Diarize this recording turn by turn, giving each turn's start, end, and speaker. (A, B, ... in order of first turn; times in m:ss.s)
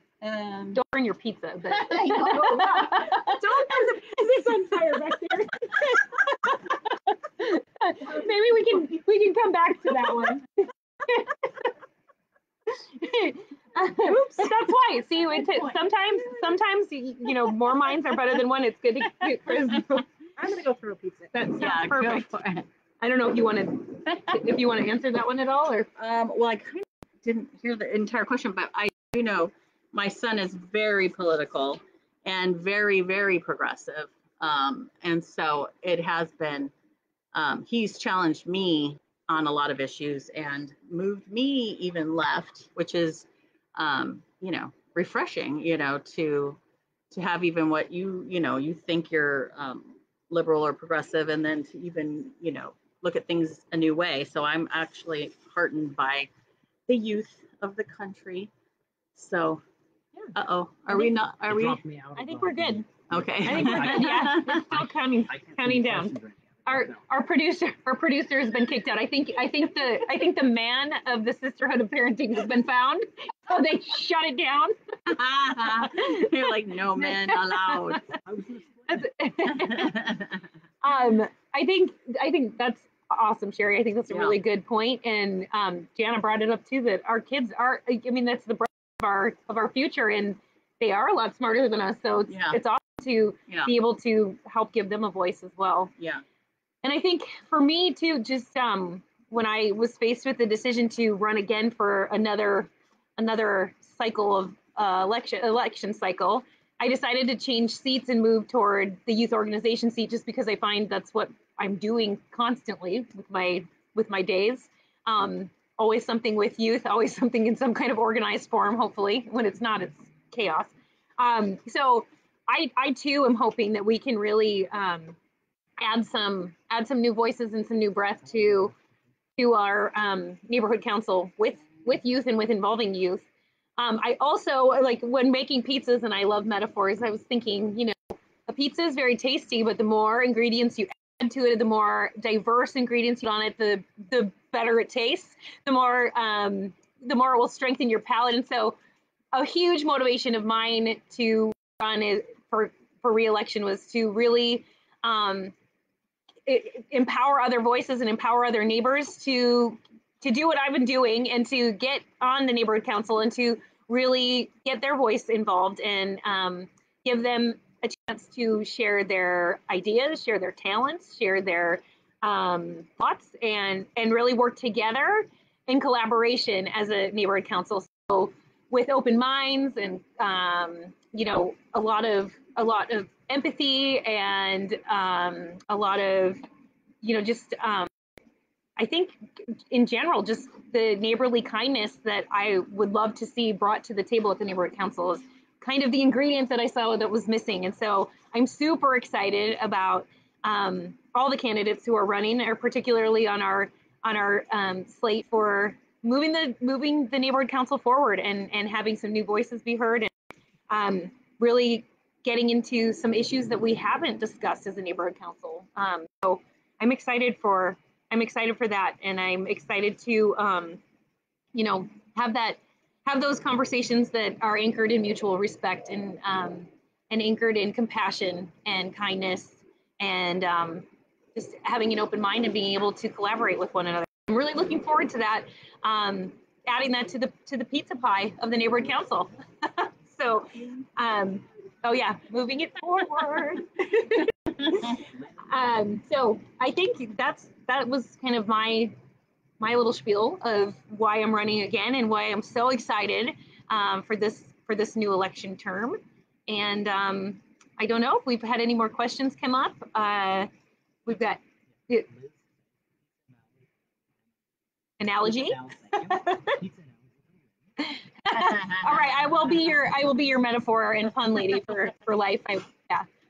0:00.2-0:00.8 A
0:00.7-0:05.9 B
0:01.7-0:03.1 A
0:02.3-0:05.2 C
0:07.2-0:11.3 B
0:12.8-0:20.0 B
0:20.4-0:21.4 C
0:21.3-0:22.3 B
0:21.6-0:22.7 A
0:23.0-0:25.9 B
0:26.0-0:36.7 A
0:37.3-0:46.6 A
0:47.1-0:56.3 A
0:56.9-0:58.5 A
0:59.2-0:59.6 A
1:00.3-1:01.8 A
1:01.4-1:07.0 D
1:02.1-1:02.8 B
1:03.1-1:04.7 A
1:03.4-1:14.7 B
1:15.1-1:18.0 A
1:15.8-1:16.4 B
1:17.0-1:18.0 B
1:18.2-1:19.1 D
1:18.9-1:20.0 B
1:19.6-1:20.3 A
1:20.8-1:35.9 B
1:24.1-1:24.4 A
1:32.3-1:32.6 A
1:36.8-2:05.2 B
2:05.8-2:08.7 B
2:09.4-2:13.2 B
2:13.8-2:28.8 B
2:29.3-2:35.5 B
2:36.4-3:06.4 B
3:07.0-3:07.9 B
3:08.8-3:30.1 B
3:30.7-3:40.8 B
3:41.5-4:08.9 B
4:09.6-4:20.5 B
4:21.0-4:22.0 B
4:21.9-4:23.7 D
4:25.0-4:26.6 B
4:25.2-4:28.0 D
4:27.8-4:33.1 B
4:28.4-4:28.9 A